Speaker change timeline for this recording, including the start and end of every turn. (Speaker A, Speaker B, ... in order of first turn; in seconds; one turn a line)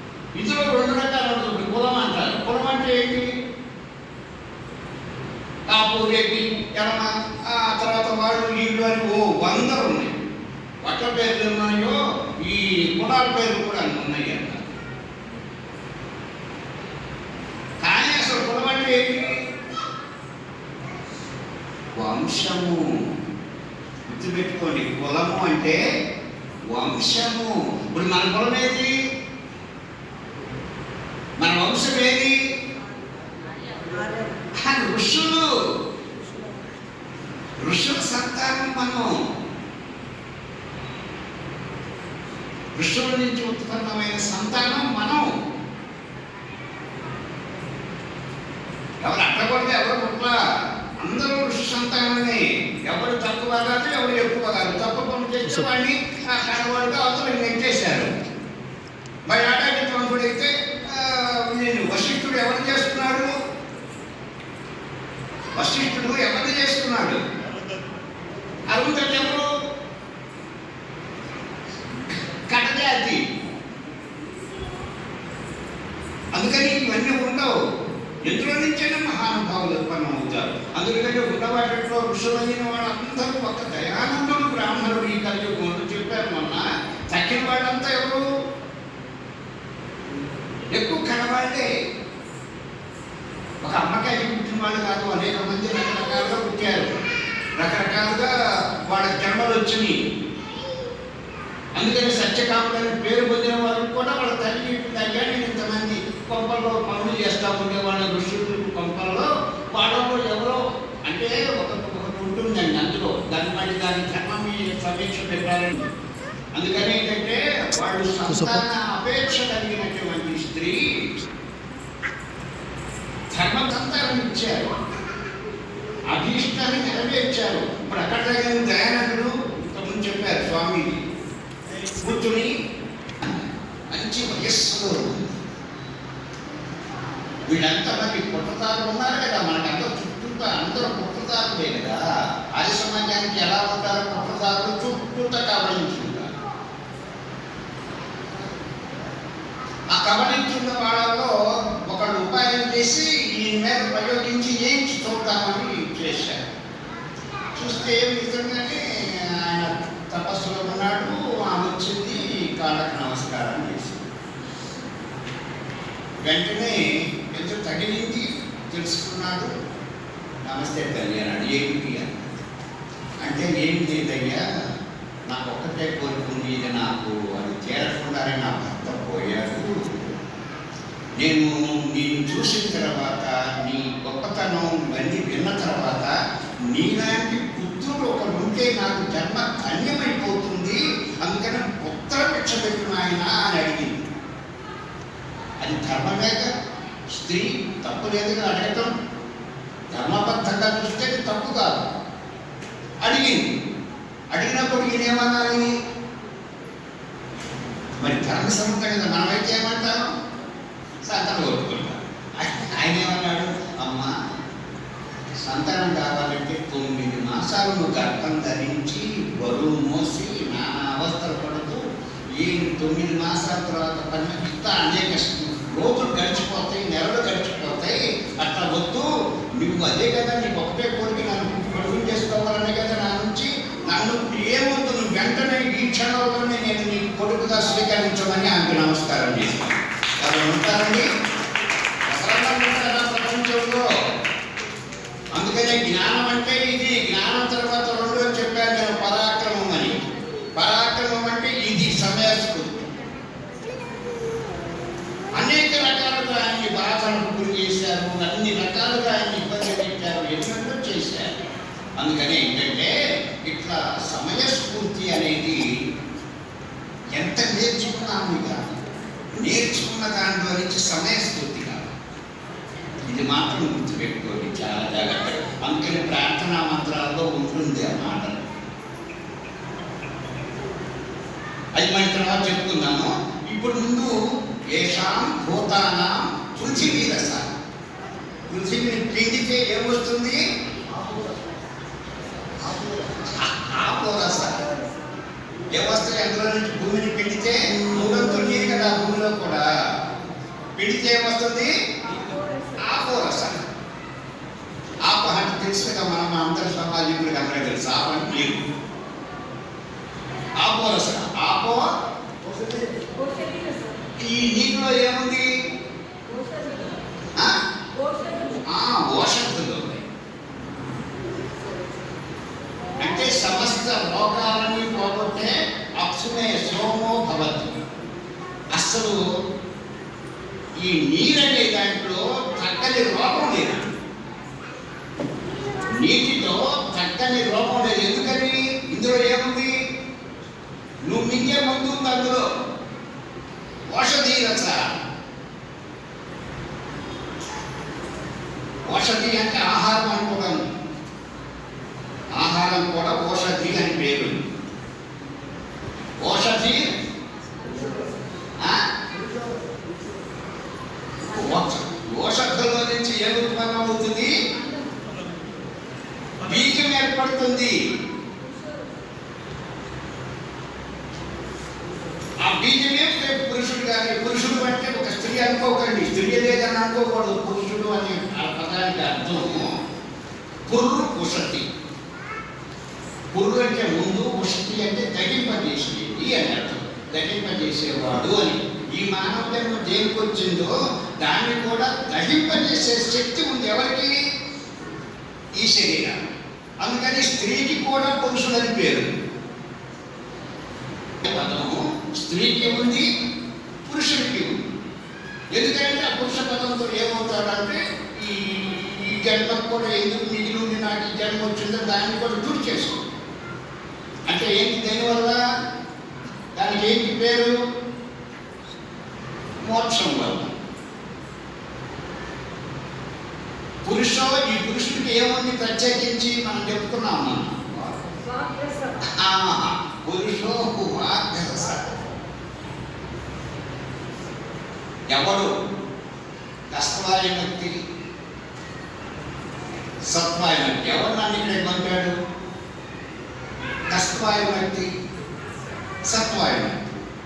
Speaker A: 0.3-3.3
Speaker A: 5.7-10.1
Speaker A: 10.8-14.7
Speaker A: 17.8-19.3
Speaker A: 22.0-22.8
Speaker A: 24.1-25.8
Speaker A: 26.7-28.9
Speaker A: 31.4-32.3
Speaker A: 34.6-35.5
Speaker A: 37.6-39.1
Speaker A: 42.8-45.2
Speaker A: 49.0-50.3
Speaker A: 51.0-58.1
Speaker A: 59.3-63.3
Speaker A: 65.6-67.2
Speaker A: 68.7-69.5
Speaker A: 72.5-73.2
Speaker A: 76.3-77.5
Speaker A: 78.3-88.2
Speaker A: 90.7-91.7
Speaker A: 93.6-96.9
Speaker A: 97.6-98.3
Speaker A: 98.9-100.0
Speaker A: 101.8-115.9
Speaker A: 116.5-121.2
Speaker A: 123.3-124.7
Speaker A: 126.1-131.0
Speaker A: 132.0-132.5
Speaker A: 133.2-135.3
Speaker A: 137.5-142.0
Speaker A: 142.6-146.3
Speaker A: 149.9-151.3
Speaker A: 151.9-156.4
Speaker A: 157.5-164.1
Speaker A: 166.2-169.5
Speaker A: 170.4-172.3
Speaker A: 173.2-174.4
Speaker A: 175.3-179.7
Speaker A: 181.2-186.1
Speaker A: 186.7-194.1
Speaker A: 195.6-196.5
Speaker A: 197.1-198.9
Speaker A: 199.9-201.9
Speaker A: 203.0-203.4
Speaker A: 204.3-205.7
Speaker A: 208.0-210.1
Speaker A: 211.1-214.1
Speaker A: 215.4-221.8
Speaker A: 222.4-241.1
Speaker A: 242.1-243.8
Speaker A: 245.3-249.9
Speaker A: 250.6-252.9
Speaker A: 255.4-261.3
Speaker A: 262.0-262.9
Speaker A: 263.4-265.6
Speaker A: 267.1-268.6
Speaker A: 269.4-271.9
Speaker A: 273.1-278.5
Speaker A: 281.8-284.2
Speaker A: 284.7-287.5
Speaker A: 288.5-290.4
Speaker A: 293.0-294.6
Speaker A: 295.7-299.6
Speaker A: 300.8-303.6
Speaker A: 305.1-308.6
Speaker A: 310.6-311.8
Speaker A: 314.2-315.5
Speaker A: 318.7-320.0
Speaker A: 323.0-327.8
Speaker A: 328.7-329.2
Speaker A: 330.8-333.9
Speaker A: 335.9-339.7
Speaker A: 341.1-342.4
Speaker A: 343.9-344.8
Speaker A: 348.9-350.6
Speaker A: 352.4-354.4
Speaker A: 356.2-356.8
Speaker A: 361.3-364.3
Speaker A: 366.4-367.8
Speaker A: 372.4-379.6
Speaker A: 380.7-381.6
Speaker A: 383.3-394.1
Speaker A: 395.6-396.2
Speaker A: 396.8-399.1
Speaker A: 401.2-403.1
Speaker A: 403.8-404.5
Speaker A: 405.5-413.0
Speaker A: 414.3-415.4
Speaker A: 416.6-417.5
Speaker A: 419.6-420.5
Speaker A: 423.8-428.0
Speaker A: 429.0-431.9
Speaker A: 435.1-435.5
Speaker A: 436.7-437.8
Speaker A: 440.1-442.1
Speaker A: 443.9-444.9
Speaker A: 446.1-446.8